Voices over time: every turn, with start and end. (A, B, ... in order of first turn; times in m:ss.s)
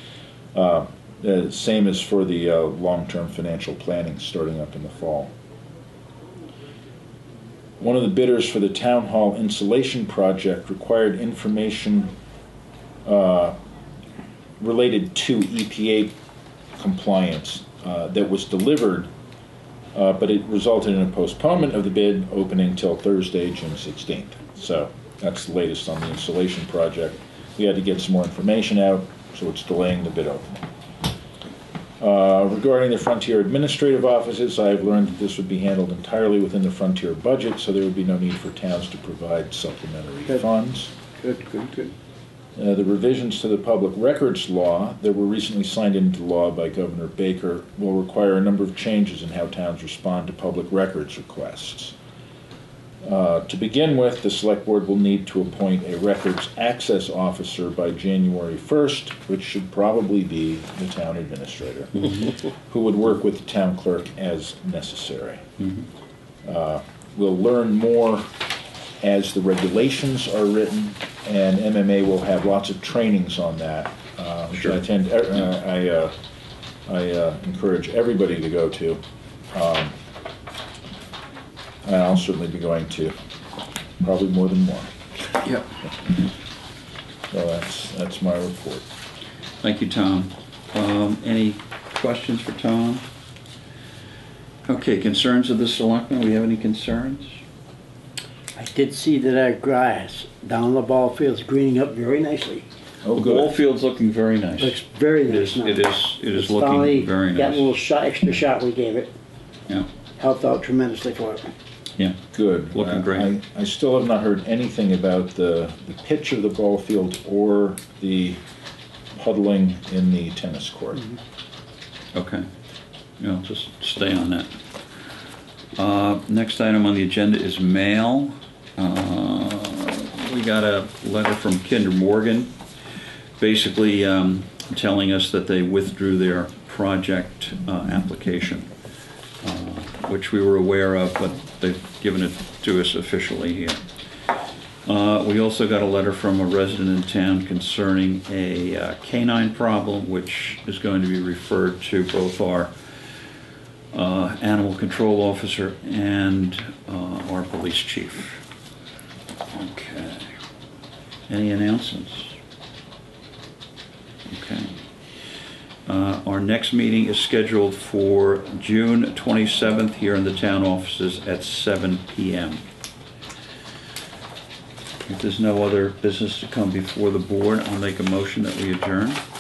0:00.5-0:05.3 A
0:07.8-0:12.1 A
0:13.0-0:13.6 A
0:14.6-0:16.1 A
0:16.8-0:19.1 A
0:19.9-0:30.6 A
0:32.0-0:40.9 A
0:41.2-0:41.9 B
0:42.6-0:52.0 A
0:53.0-1:05.4 A
1:05.6-1:05.8 C
1:06.4-1:08.3 A
1:09.0-1:16.2 A
1:16.9-1:19.0 A
1:19.5-1:20.0 A
1:21.8-1:23.2 A
1:24.0-1:25.0 A
1:27.3-1:28.8 A
1:29.6-1:33.0 C
1:34.7-1:37.4 C
1:38.6-1:42.7 B
1:43.0-1:43.6 A
1:43.1-1:47.7 C
1:44.6-1:49.1 B
1:50.2-1:51.5 B
1:52.3-1:58.4 A
1:52.7-1:53.3 C
1:59.2-2:01.0 A
2:02.1-2:02.5 C
2:03.2-2:04.6 C
2:05.8-2:12.5 C
2:13.4-2:18.7 C
2:19.4-2:23.8 C
2:24.9-2:32.7 C
2:33.9-2:38.4 C
2:39.5-2:40.3 C
2:41.3-2:42.4 C
2:44.3-2:44.8 C
2:45.9-2:52.6 C
2:55.0-2:59.2 C